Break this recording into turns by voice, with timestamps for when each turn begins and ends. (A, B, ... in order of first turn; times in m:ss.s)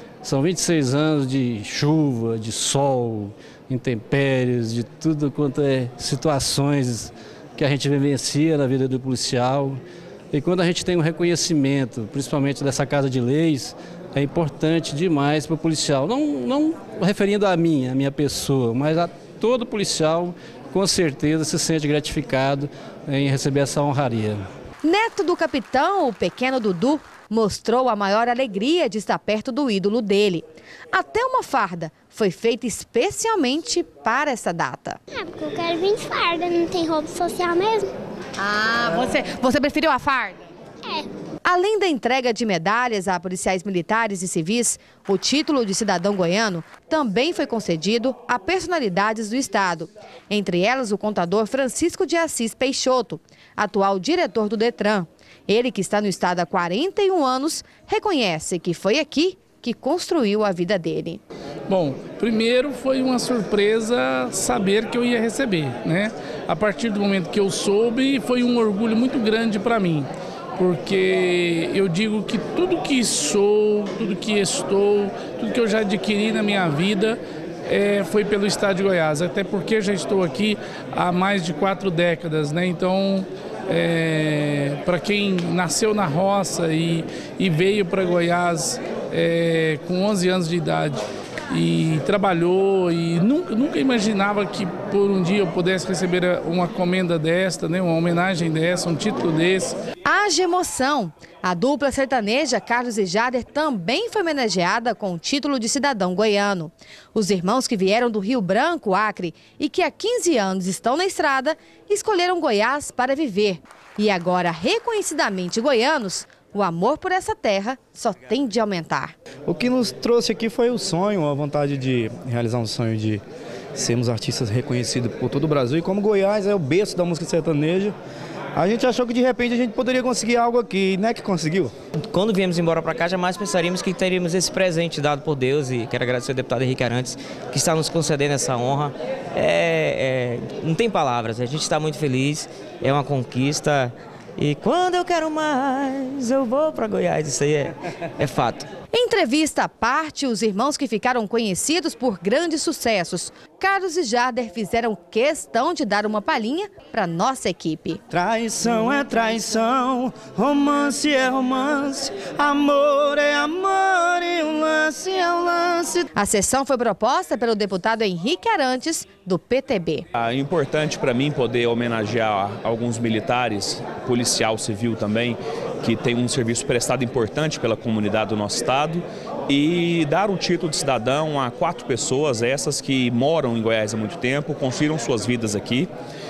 0:00.2-0:09.8 A
0:10.3-0:24.4 A
0:24.8-0:35.0 B
0:35.1-0:37.9 C
0:38.4-0:40.4 B
0:41.4-1:01.2 B
1:01.7-1:39.8 D
1:40.0-1:59.2 B
1:59.4-2:03.2 E
2:03.7-2:07.9 E
2:08.6-2:11.7 E
2:12.1-2:28.7 F
2:28.9-2:38.0 B
2:38.1-2:46.1 E
2:46.2-2:50.0 B
2:50.1-3:05.9 G